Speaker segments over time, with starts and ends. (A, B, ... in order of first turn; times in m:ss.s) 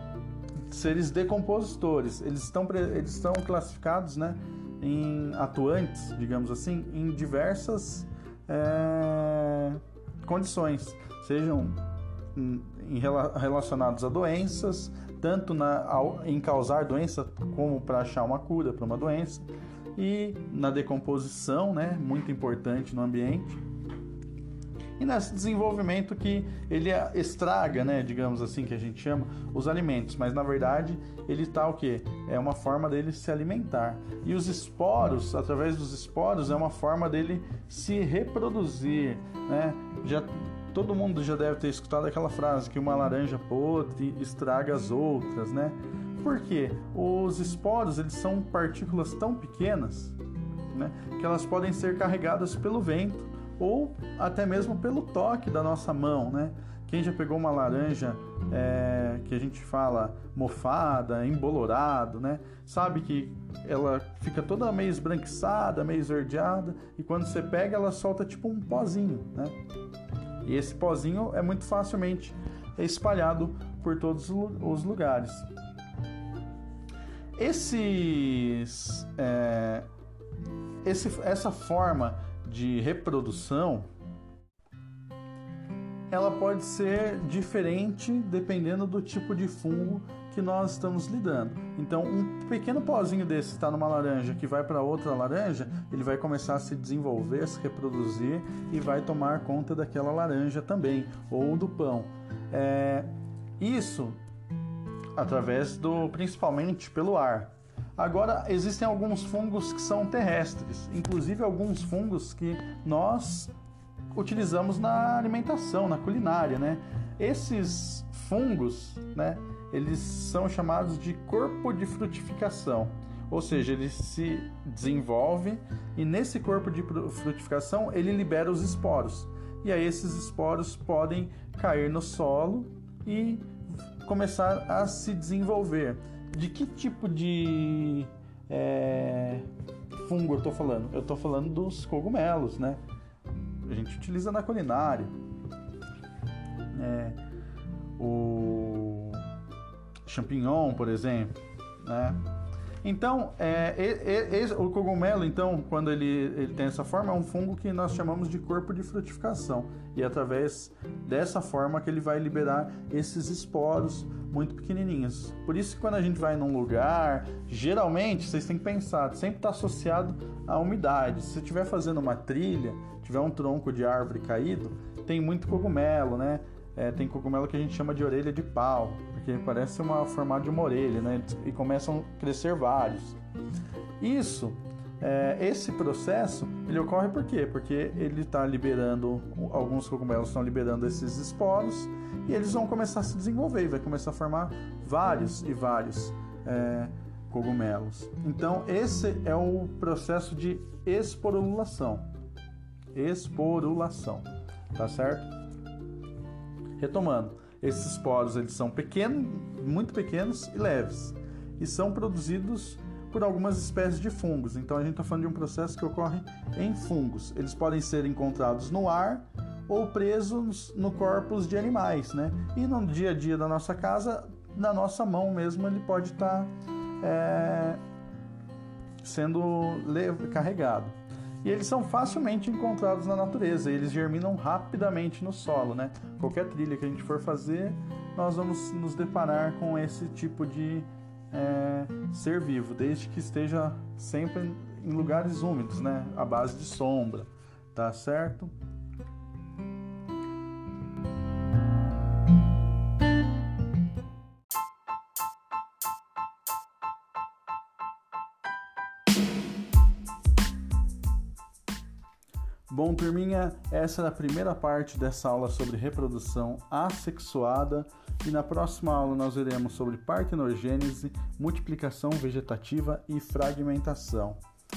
0:00.6-0:11.8 A
0:12.3-0:23.6 A
0:25.0-0:50.2 A
0:50.7-1:09.5 A
1:10.4-1:15.5 A
1:17.4-1:19.9 A
1:20.8-1:23.8 A
1:26.1-1:44.2 A
1:45.1-1:53.5 A
1:54.1-2:19.5 A
2:20.0-2:22.8 A
2:23.6-2:25.1 A
2:26.7-2:27.2 A
2:28.0-2:29.2 A
2:30.0-2:32.2 A
2:32.8-3:03.2 A
3:04.0-3:22.1 A
3:22.9-3:25.3 A
3:26.8-3:47.8 A
3:49.0-4:08.5 A
4:22.7-4:34.4 A